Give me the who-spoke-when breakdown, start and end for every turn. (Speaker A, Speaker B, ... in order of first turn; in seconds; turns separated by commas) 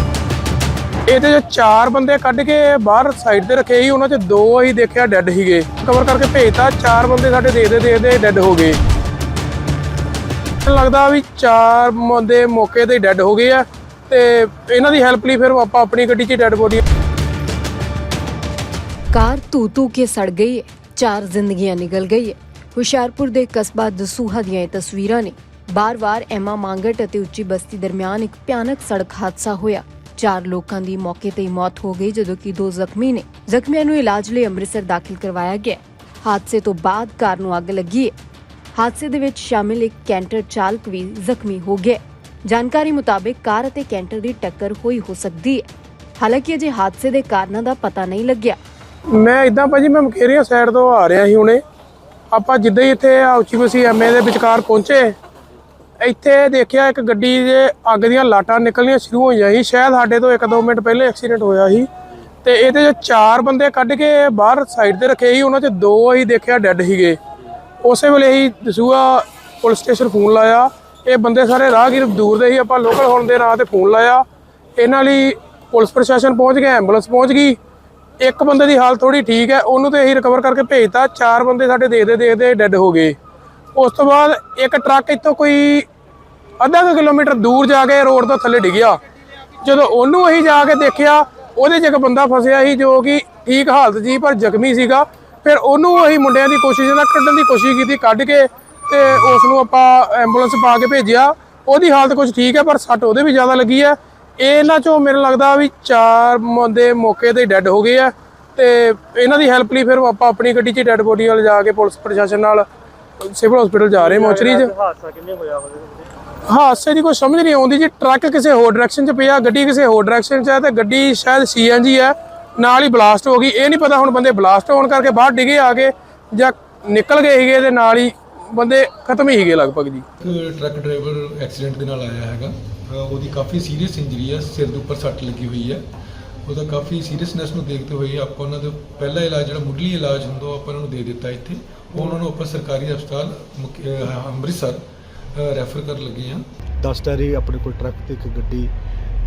Speaker A: 1.1-8.8, Speaker A: 10.6-16.8, Speaker B: 19.1-38.1, Speaker B: 38.7-45.7, Speaker B: 46.2-48.6, Speaker A: 49.1-51.6, Speaker A: 52.3-55.1, Speaker A: 56.0-61.9, Speaker A: 62.4-67.2, Speaker A: 67.8-74.2, Speaker A: 74.8-77.6, Speaker A: 78.2-83.2, Speaker A: 83.7-85.9, Speaker A: 86.6-89.0, Speaker A: 89.6-112.7, Speaker A: 113.2-114.7, Speaker C: 114.1-116.0, Speaker A: 116.5-130.0, Speaker D: 130.2-135.8, Speaker D: 136.4-144.8, Speaker D: 145.3-146.4, Speaker E: 146.8-148.7